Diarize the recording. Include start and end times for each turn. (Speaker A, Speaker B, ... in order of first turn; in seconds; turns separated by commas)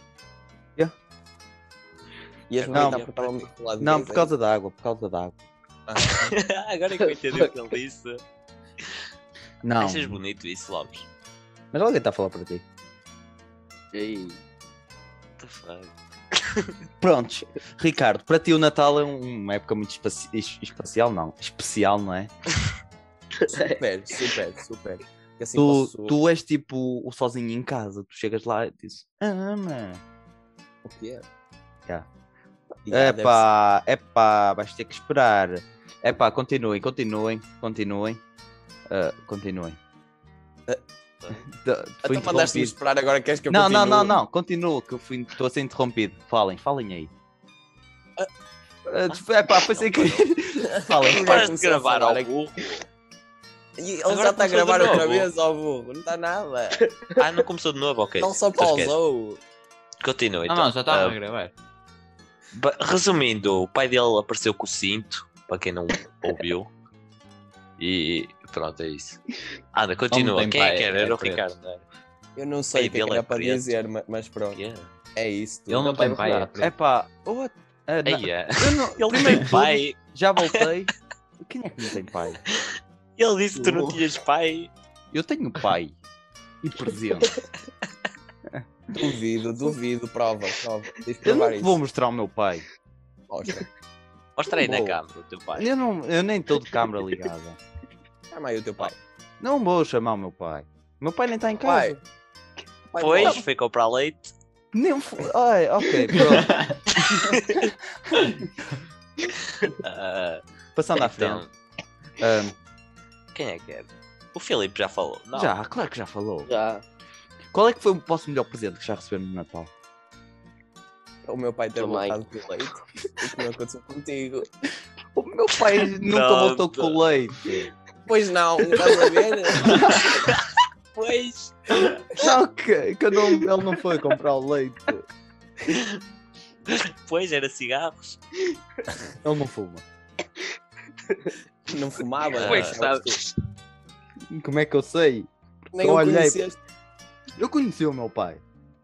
Speaker A: 2.5-4.3, Speaker B: 2.6-3.4, Speaker C: 2.7-3.0, Speaker C: 3.8-5.4, Speaker A: 5.9-6.3, Speaker B: 6.2-8.2, Speaker D: 7.0-7.5, Speaker C: 9.6-10.2, Speaker B: 9.8-11.1, Speaker C: 11.7-12.6, Speaker D: 13.9-14.4, Speaker B: 15.4-15.9, Speaker C: 17.0-22.3, Speaker D: 23.4-23.8, Speaker A: 23.6-26.2, Speaker C: 25.6-30.0, Speaker A: 30.9-31.2, Speaker A: 32.9-33.5, Speaker C: 32.9-38.2, Speaker C: 38.9-39.8, Speaker C: 41.6-42.8, Speaker A: 42.0-44.2, Speaker C: 43.5-47.1, Speaker C: 48.9-51.5, Speaker B: 49.5-50.3, Speaker A: 50.8-52.3, Speaker B: 51.1-52.9, Speaker A: 53.8-56.9, Speaker B: 54.1-55.3, Speaker B: 57.2-59.0, Speaker A: 58.2-59.4, Speaker B: 60.0-61.2, Speaker E: 60.5-61.5, Speaker B: 62.5-66.7, Speaker B: 67.8-69.2, Speaker B: 69.7-71.8, Speaker E: 70.1-71.6, Speaker A: 72.4-74.6, Speaker B: 72.7-73.7, Speaker B: 74.5-74.9, Speaker A: 75.2-76.2, Speaker E: 75.7-76.7, Speaker C: 76.3-82.4, Speaker B: 78.1-80.0, Speaker B: 83.2-84.7, Speaker A: 83.6-84.0, Speaker C: 85.1-86.0, Speaker C: 86.6-87.3, Speaker A: 88.9-91.8, Speaker C: 91.2-92.7, Speaker A: 93.3-93.7, Speaker B: 94.4-95.7, Speaker C: 94.6-95.0, Speaker C: 95.5-97.6, Speaker A: 98.3-99.0, Speaker C: 99.4-102.0, Speaker A: 101.6-102.0, Speaker A: 102.9-103.4, Speaker B: 103.0-104.3, Speaker C: 104.7-106.8, Speaker E: 106.1-106.8, Speaker B: 106.9-107.7, Speaker C: 108.1-108.5, Speaker B: 109.3-110.4, Speaker C: 110.8-111.4, Speaker B: 110.9-111.5, Speaker C: 112.2-112.5, Speaker B: 113.3-115.5, Speaker C: 115.3-116.5, Speaker D: 116.5-116.8, Speaker C: 117.5-119.7, Speaker A: 121.3-124.5, Speaker D: 121.8-122.2, Speaker C: 125.2-127.7, Speaker B: 126.1-127.0, Speaker A: 128.1-129.9, Speaker B: 129.8-131.9, Speaker C: 132.1-135.1, Speaker B: 135.7-136.0, Speaker B: 136.7-138.2, Speaker C: 139.2-139.8, Speaker A: 141.7-143.2, Speaker B: 142.4-142.9, Speaker D: 142.4-143.1, Speaker C: 144.3-146.4, Speaker A: 145.7-146.6, Speaker C: 147.4-148.4